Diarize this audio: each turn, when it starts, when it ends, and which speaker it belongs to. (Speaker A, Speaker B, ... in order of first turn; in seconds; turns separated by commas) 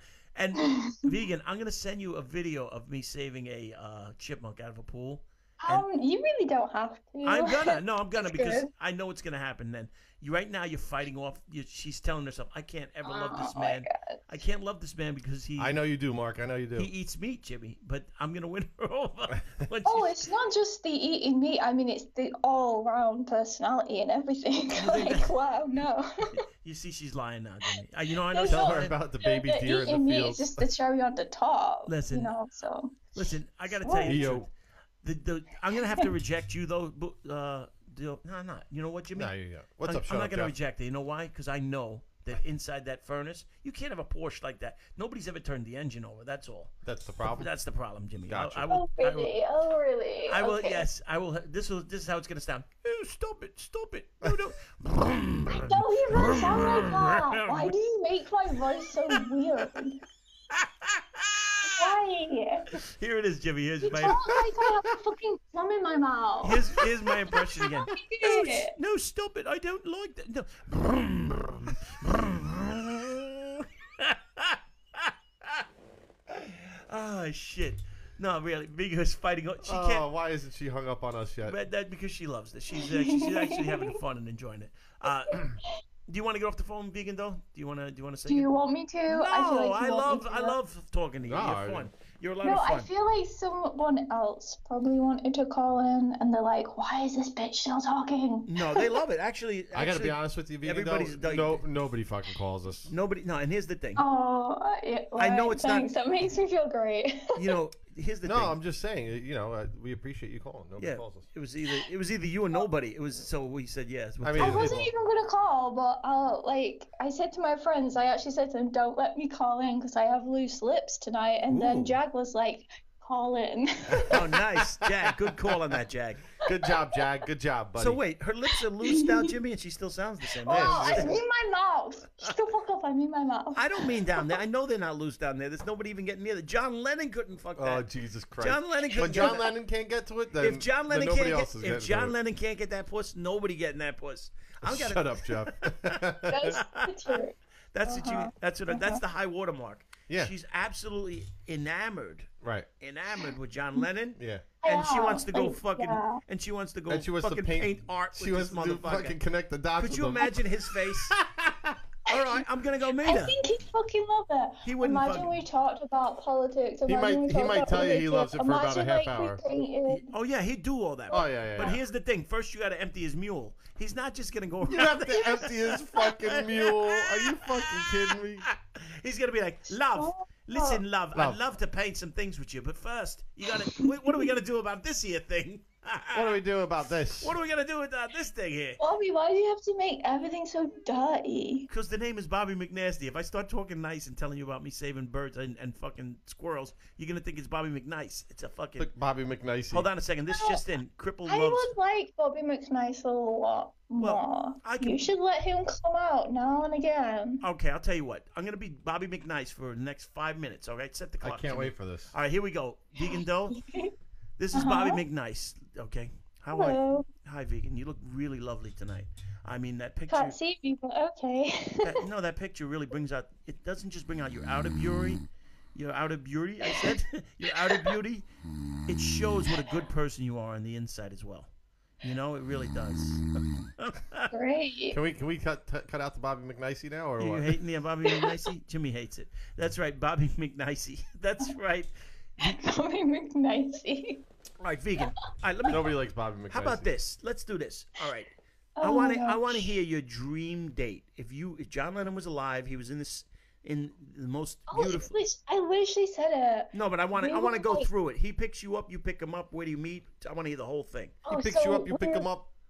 Speaker A: 0.4-5.9, Speaker B: 0.6-1.0, Speaker B: 5.6-8.7, Speaker A: 7.2-15.8, Speaker B: 13.1-14.2, Speaker C: 15.6-16.9, Speaker A: 16.8-20.3, Speaker B: 19.9-26.1, Speaker A: 24.7-25.3, Speaker A: 26.3-29.0, Speaker B: 28.3-33.1, Speaker C: 28.5-30.7, Speaker A: 31.9-32.4, Speaker A: 33.1-34.5, Speaker B: 33.8-34.3, Speaker C: 34.0-34.5, Speaker A: 35.0-49.4, Speaker C: 39.1-40.5, Speaker C: 46.9-47.5, Speaker C: 48.3-48.8, Speaker B: 48.7-50.9, Speaker A: 50.3-57.8, Speaker B: 55.5-60.0, Speaker A: 60.5-62.0, Speaker B: 61.6-62.8, Speaker A: 62.7-64.4, Speaker B: 63.8-66.8, Speaker A: 66.4-75.7, Speaker B: 67.3-68.8, Speaker A: 76.3-80.1, Speaker C: 79.6-81.6, Speaker A: 81.4-88.5, Speaker B: 82.8-84.0, Speaker B: 85.1-85.5, Speaker B: 88.3-90.6, Speaker A: 89.1-92.9, Speaker C: 91.2-91.9, Speaker B: 92.4-99.0, Speaker A: 98.5-101.7, Speaker C: 99.7-102.9, Speaker A: 102.9-104.0, Speaker B: 104.0-107.4, Speaker A: 105.2-105.9, Speaker A: 107.3-108.5, Speaker C: 108.2-111.2, Speaker A: 110.8-114.8, Speaker C: 114.2-114.9, Speaker B: 114.4-124.2, Speaker A: 121.5-122.0, Speaker C: 124.0-125.8, Speaker A: 124.1-126.3, Speaker C: 126.4-128.0, Speaker B: 126.7-127.0, Speaker A: 127.8-131.2, Speaker B: 128.8-129.3, Speaker B: 130.4-134.3, Speaker C: 130.5-131.2, Speaker A: 133.6-137.9, Speaker C: 137.6-142.2, Speaker A: 138.4-139.5, Speaker B: 138.9-139.5, Speaker A: 140.4-147.2, Speaker C: 144.6-146.6, Speaker B: 146.3-149.0, Speaker A: 147.7-152.3, Speaker C: 152.4-152.7, Speaker A: 152.8-159.2, Speaker C: 154.2-154.5, Speaker B: 154.6-156.2, Speaker C: 156.9-161.8, Speaker A: 159.8-161.2, Speaker A: 162.1-163.4, Speaker B: 162.1-162.4, Speaker B: 163.0-170.1, Speaker A: 164.6-165.4, Speaker C: 166.9-169.4, Speaker A: 169.9-186.4, Speaker B: 171.1-171.8, Speaker C: 171.1-171.8, Speaker C: 174.7-178.5, Speaker B: 179.7-180.8, Speaker B: 183.8-184.3, Speaker C: 186.1-187.4, Speaker A: 187.2-188.8, Speaker B: 188.8-191.7, Speaker A: 191.7-198.9, Speaker C: 198.8-199.9, Speaker A: 199.7-201.7, Speaker B: 200.3-200.6, Speaker B: 201.3-207.4, Speaker A: 204.0-205.1, Speaker A: 207.4-213.6, Speaker C: 211.2-212.2, Speaker B: 213.0-213.9, Speaker A: 214.4-220.4, Speaker B: 214.5-215.0, Speaker B: 216.5-217.1, Speaker B: 220.1-222.0, Speaker A: 221.8-225.2, Speaker A: 225.8-228.2, Speaker B: 226.7-227.0, Speaker B: 227.5-227.9, Speaker A: 228.9-231.5, Speaker A: 232.0-233.2, Speaker A: 233.8-234.3, Speaker B: 234.3-235.0, Speaker C: 234.9-237.6, Speaker A: 237.2-241.9, Speaker B: 242.4-244.2, Speaker A: 244.6-246.0, Speaker C: 245.7-246.9, Speaker A: 246.5-248.3, Speaker B: 248.8-249.7, Speaker A: 248.8-255.1, Speaker B: 254.7-257.9, Speaker A: 256.7-261.2, Speaker B: 261.3-262.3, Speaker C: 261.3-262.5